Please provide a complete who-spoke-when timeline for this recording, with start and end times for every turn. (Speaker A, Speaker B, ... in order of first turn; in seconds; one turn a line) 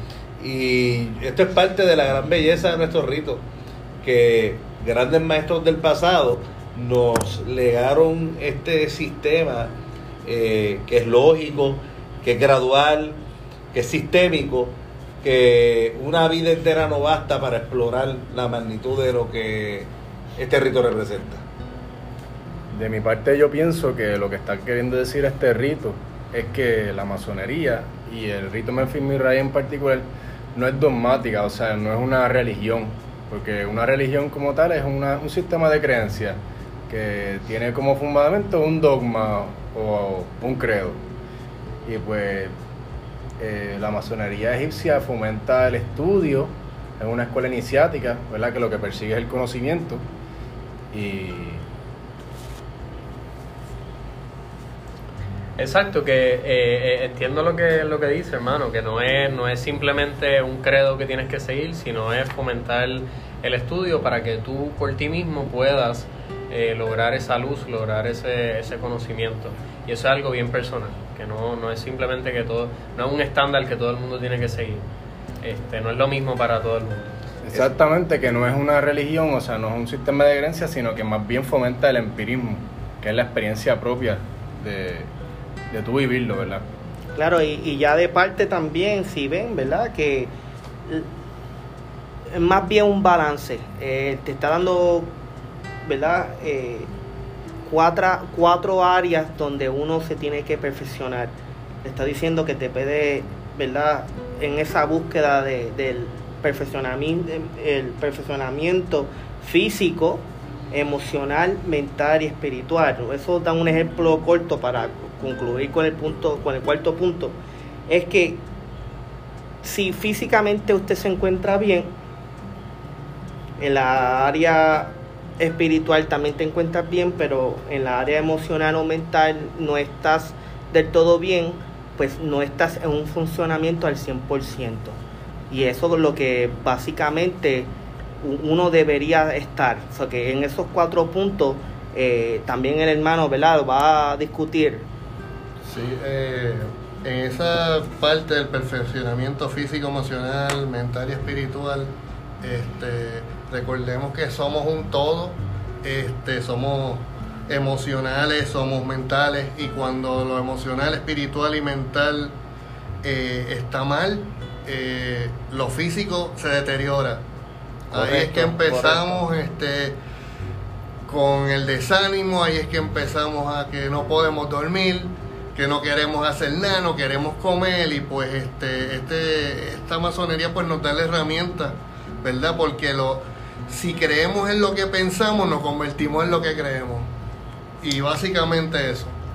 Speaker A: 0.4-3.4
Speaker A: 4.0-13.2
Speaker A: 13.7-21.4
Speaker B: 22.7-41.0
Speaker B: 41.8-42.5
Speaker B: 43.4-50.0
Speaker B: 50.9-51.6
Speaker C: 55.6-74.8
Speaker C: 75.4-77.1
Speaker B: 77.4-85.1
Speaker B: 85.7-86.6
Speaker D: 87.1-90.3
Speaker D: 92.3-95.1
Speaker D: 95.8-96.9
Speaker D: 97.6-117.3
Speaker D: 117.9-118.4
Speaker D: 119.6-121.9
Speaker D: 123.6-135.0
Speaker D: 135.5-137.7
Speaker D: 138.2-144.8
Speaker E: 145.6-162.3
Speaker E: 163.0-167.2
Speaker E: 167.9-169.9
Speaker C: 167.9-169.2
Speaker E: 171.1-187.1
Speaker E: 187.8-189.2